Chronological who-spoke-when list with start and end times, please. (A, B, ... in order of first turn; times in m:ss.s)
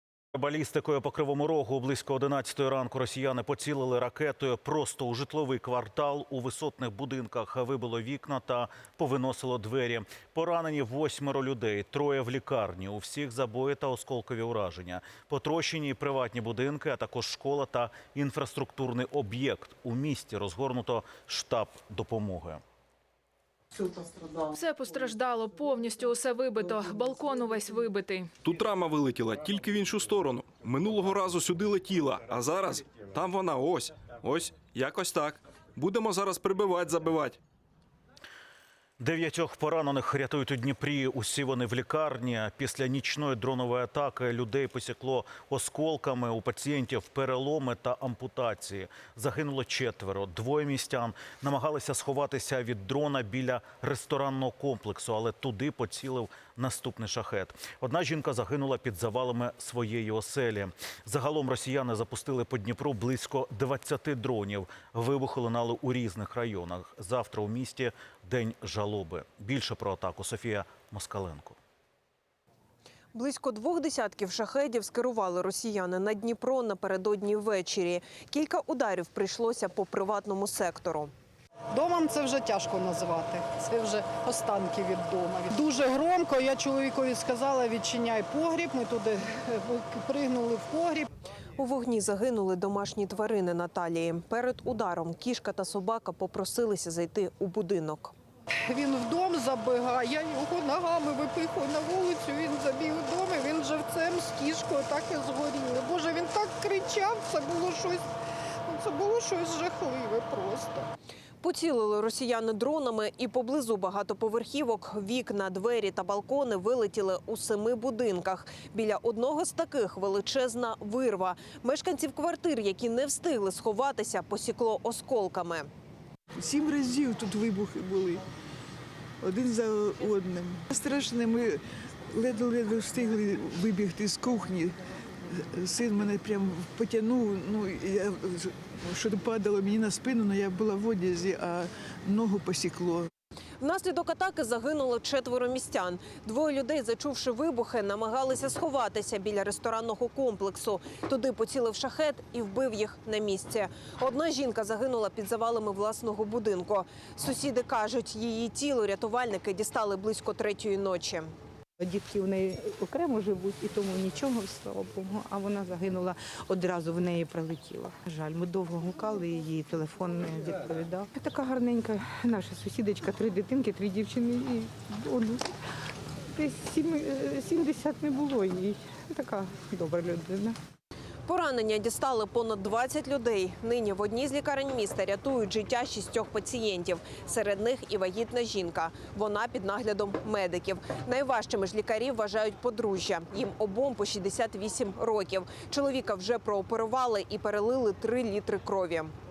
0:00.4-0:22.6 A
0:24.5-0:28.3 B
0:28.4-0:37.4 C
0:39.0-1:11.6 A
1:13.1-1:21.1 D
1:21.7-1:31.1 E
1:31.6-1:38.1 D
1:38.7-1:48.0 E
1:48.7-1:50.9 E
1:51.4-2:05.7 D
2:06.4-2:08.2 F
2:09.2-2:11.5 F
2:12.2-2:14.7 F
2:15.6-2:18.1 F
2:18.9-2:23.0 F
2:23.6-2:41.3 D
2:41.8-2:55.4 G
2:56.4-3:00.5 G
3:01.3-3:19.1 D